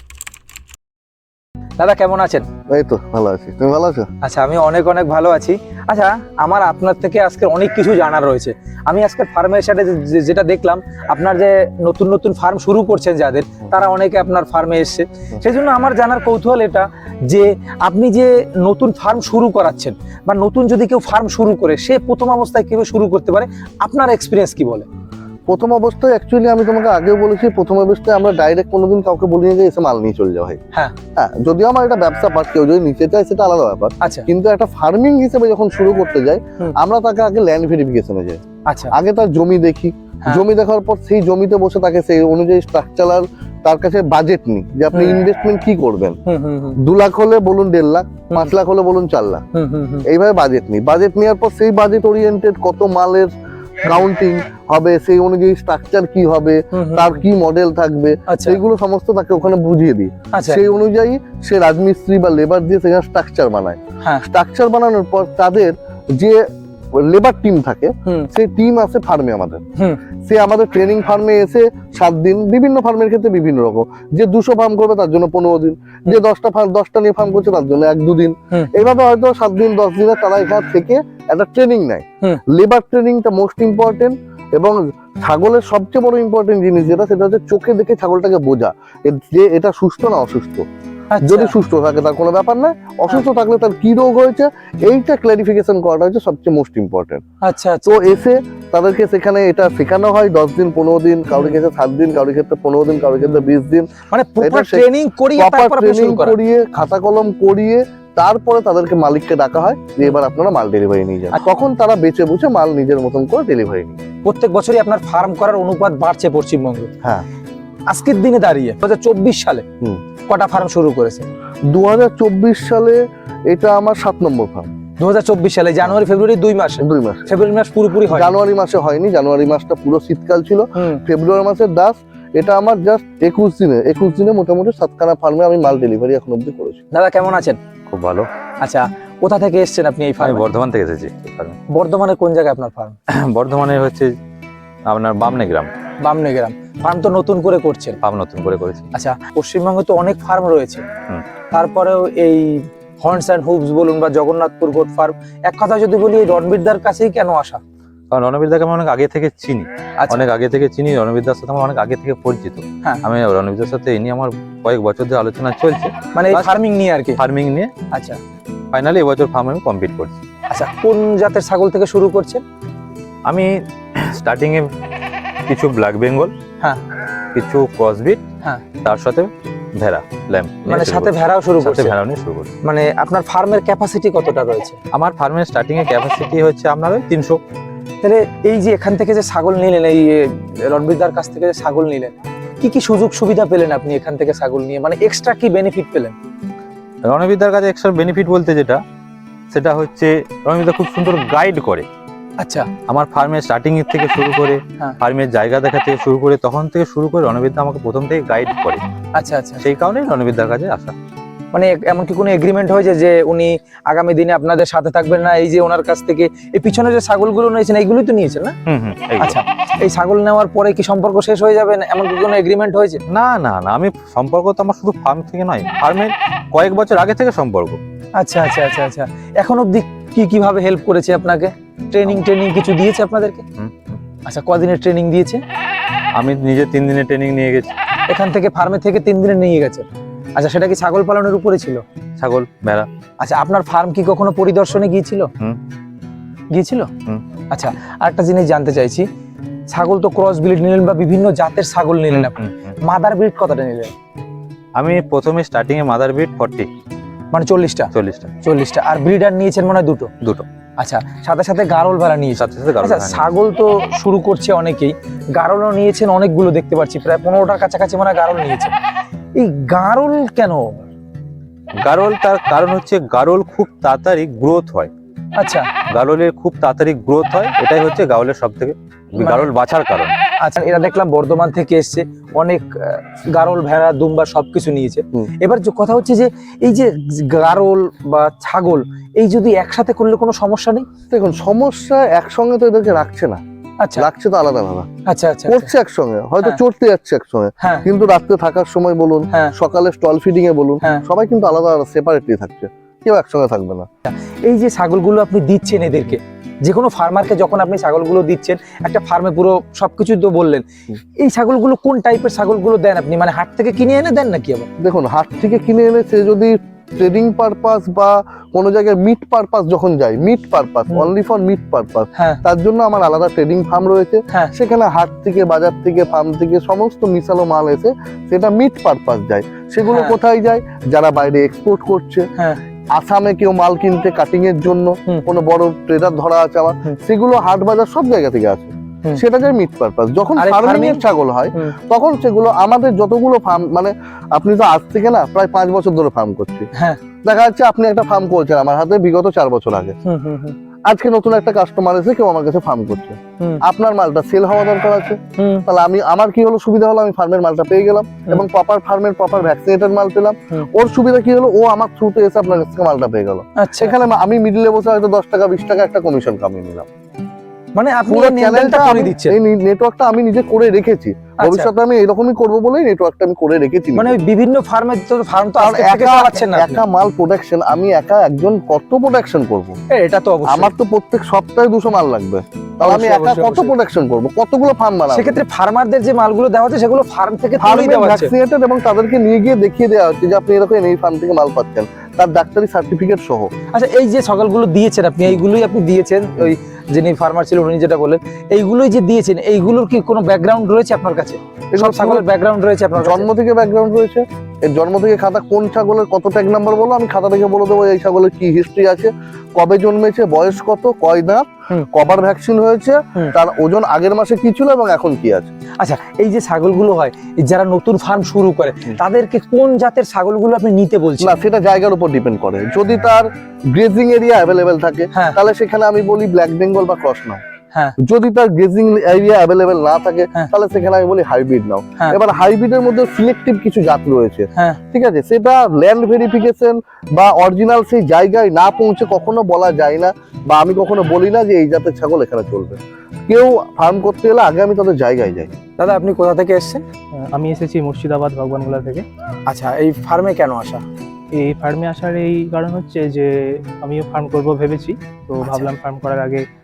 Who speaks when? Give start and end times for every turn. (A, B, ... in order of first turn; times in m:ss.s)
0:01.8-0:02.5 A
0:02.7-0:04.1 B
0:04.2-0:24.9 A
0:25.5-0:30.6 B
0:31.2-0:38.4 B
0:38.7-0:38.9 A
0:38.9-0:46.2 B
0:44.9-0:45.2 A
0:46.3-0:46.8 A
0:46.8-0:49.4 B
0:49.5-0:50.1 A
0:50.1-1:06.4 B
0:56.7-0:57.2 A
0:58.3-0:58.6 A
1:00.3-1:00.6 A
1:07.0-1:09.6 B
1:10.3-1:30.7 B
1:31.1-1:31.5 A
1:31.2-1:37.2 B
1:37.4-1:38.0 A
1:37.9-1:43.9 B
1:41.3-1:41.6 A
1:44.1-1:46.4 A
1:44.4-1:54.0 B
1:54.2-1:56.9 A
1:57.9-1:59.6 A
2:00.3-2:01.3 A
2:01.7-2:04.7 B
2:05.0-2:08.4 A
2:06.8-2:07.3 B
2:08.1-2:16.8 B
2:10.8-2:11.0 A
2:16.9-2:17.6 A
2:17.9-2:18.3 C
2:18.6-2:20.5 A
2:20.2-2:21.6 C
2:21.7-2:23.0 A
2:23.1-2:24.1 C
2:24.9-2:25.7 C
2:26.0-2:28.0 A
2:28.0-2:28.9 C
2:28.9-2:30.8 A
2:31.5-2:37.6 A
2:38.1-2:46.6 C
2:40.0-2:40.3 A
2:46.1-2:47.2 A
2:47.2-2:47.7 C
2:47.9-2:48.2 A
2:48.7-2:50.2 C
2:50.5-2:52.4 A
2:53.3-2:54.7 C
2:55.5-2:56.3 C
2:57.3-2:58.2 C
2:58.8-3:02.5 C
3:00.7-3:02.0 A
3:02.6-3:04.8 A
3:04.9-3:07.4 C
3:08.0-3:16.1 A
3:17.1-3:18.8 C
3:19.5-3:21.8 C
3:22.4-3:22.7 A
3:22.9-3:28.8 C
3:29.2-3:29.7 A
3:29.6-3:30.9 C
3:31.5-3:38.6 A
3:38.7-3:39.4 C
3:39.2-3:43.0 A
3:43.1-3:47.8 C
3:48.2-3:53.4 A
3:53.6-3:54.0 C
3:54.3-3:55.4 A
3:56.2-3:57.7 C
3:58.1-4:01.8 A
4:02.2-4:02.9 C
4:03.2-4:05.3 A
4:06.5-4:06.9 A
4:07.5-4:09.0 A
4:09.7-4:13.9 A
4:12.1-4:12.5 C
4:14.8-4:16.7 C
4:17.3-4:17.9 A
4:17.9-4:18.3 C
4:18.4-4:20.1 A
4:20.8-4:28.7 A
4:22.4-4:23.3 C
4:29.4-4:30.6 A
4:31.8-4:34.9 C
4:35.4-4:35.7 A
4:35.9-4:40.1 C
4:39.2-4:39.5 A
4:40.4-4:50.9 A
4:51.1-4:53.4 B
4:53.8-4:54.1 A
4:54.0-4:54.9 B
4:55.1-4:55.7 A
4:55.5-5:03.9 B
4:57.6-4:57.9 A
5:04.1-5:10.6 A
5:11.2-5:14.7 A
5:14.8-5:32.3 B
5:29.9-5:30.2 A
5:33.0-5:46.7 B
5:40.4-5:41.0 A
5:46.8-5:47.0 A
5:47.2-5:50.0 B
5:50.0-5:50.6 A
5:50.9-6:06.9 B
5:55.4-5:55.7 A
6:03.6-6:04.0 A
6:07.8-6:09.4 A
6:08.1-6:14.2 B
6:11.4-6:11.7 A
6:14.0-6:16.8 A
6:15.6-6:19.7 B
6:19.9-6:20.7 A
6:20.5-6:25.4 B
6:22.8-6:23.7 A
6:25.1-6:28.3 A
6:27.6-6:33.5 B
6:33.7-6:43.3 A
6:41.7-6:42.3 B
6:43.0-6:55.5 B
6:55.8-7:01.4 A
7:01.2-7:07.4 B
7:05.1-7:05.4 A
7:08.0-7:25.5 B
7:25.8-7:26.8 A
7:27.4-7:29.0 D
7:29.5-7:30.8 A
7:31.4-7:33.3 D
7:33.8-7:36.4 D
7:35.4-7:35.7 A